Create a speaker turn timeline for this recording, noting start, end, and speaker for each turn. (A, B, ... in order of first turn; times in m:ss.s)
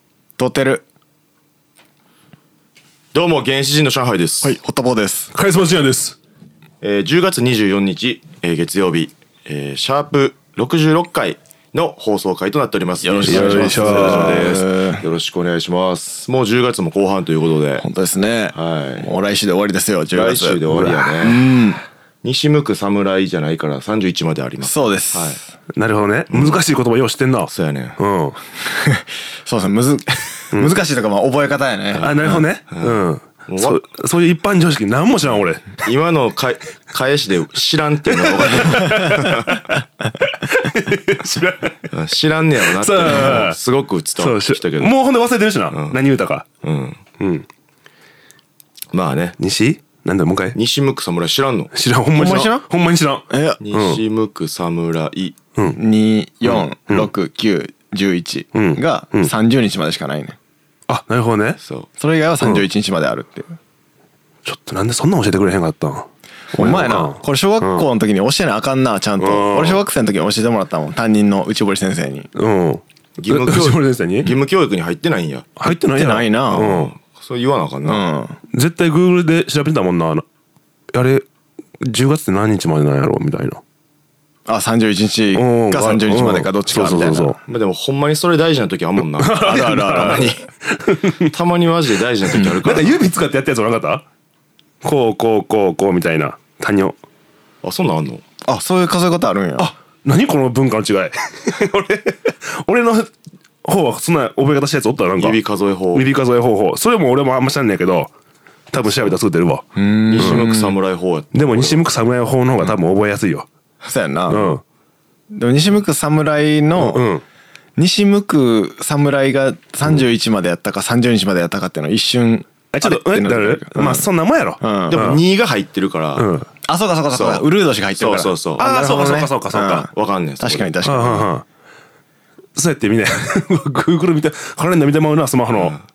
0:00.4-0:00.8 A
0:03.1-0:04.6 B
0:04.4-0:05.3 A
0:05.3-0:06.2 C
0:06.8-0:17.8 B
0:13.0-0:15.0 A
0:13.3-0:14.5 C
0:17.8-0:20.6 A
0:18.5-0:19.1 B
0:20.1-0:21.5 B
0:20.7-0:21.1 C
0:21.2-0:21.8 A
0:22.2-0:25.4 B
0:24.6-0:25.4 A
0:25.7-0:28.4 C
0:26.3-0:26.6 B
0:27.5-0:28.0 B
0:28.6-0:32.4 A
0:31.9-0:33.8 B
0:32.0-0:35.8 C
0:35.8-0:39.7 B
0:38.1-0:39.7 C
0:40.2-0:41.9 C
0:41.9-0:44.9 B
0:42.8-0:43.6 C
0:43.1-0:43.4 A
0:44.2-0:46.5 C
0:45.7-0:46.0 B
0:46.6-0:47.0 B
0:47.2-0:47.5 C
0:48.9-0:49.4 B
0:49.4-0:50.6 C
0:50.6-0:51.7 B
0:51.7-0:54.0 C
0:52.2-0:52.6 A
0:53.3-0:53.6 A
0:53.6-0:55.4 B
0:55.8-1:00.4 A
0:56.4-0:57.1 C
0:58.5-0:59.3 C
1:00.9-1:01.6 C
1:01.6-1:01.9 B
1:02.0-1:03.6 A
1:04.4-1:07.9 C
1:06.5-1:12.3 A
1:09.2-1:09.8 C
1:12.4-1:14.3 C
1:13.2-1:15.5 B
1:15.6-1:16.9 C
1:15.9-1:16.8 A
1:16.5-1:18.0 B
1:17.9-1:18.4 A
1:18.5-1:20.2 C
1:20.9-1:21.2 C
1:21.8-1:23.6 C
1:24.5-1:27.4 A
1:25.4-1:27.4 C
1:27.5-1:30.5 B
1:29.2-1:31.3 C
1:29.4-1:30.3 A
1:31.2-1:33.0 B
1:32.3-1:34.0 C
1:34.8-1:37.0 C
1:37.6-1:38.2 B
1:38.4-1:39.7 A
1:39.6-1:43.1 C
1:43.6-1:45.4 C
1:45.2-1:46.1 B
1:45.9-1:48.1 C
1:48.7-1:49.7 C
1:48.8-1:49.2 B
1:49.8-1:50.7 A
1:50.1-1:51.8 B
1:50.2-1:50.5 C
1:51.3-1:53.5 C
1:53.9-1:54.6 A
1:54.3-1:54.6 C
1:55.3-1:57.0 A
1:56.8-1:57.2 C
1:57.8-2:04.1 A
2:02.7-2:05.2 C
2:04.6-2:05.0 A
2:04.9-2:06.3 B
2:06.2-2:06.5 C
2:06.6-2:11.3 A
2:07.1-2:08.6 B
2:08.6-2:09.9 C
2:09.9-2:10.7 B
2:10.8-2:11.4 C
2:12.6-2:15.7 C
2:15.5-2:15.8 B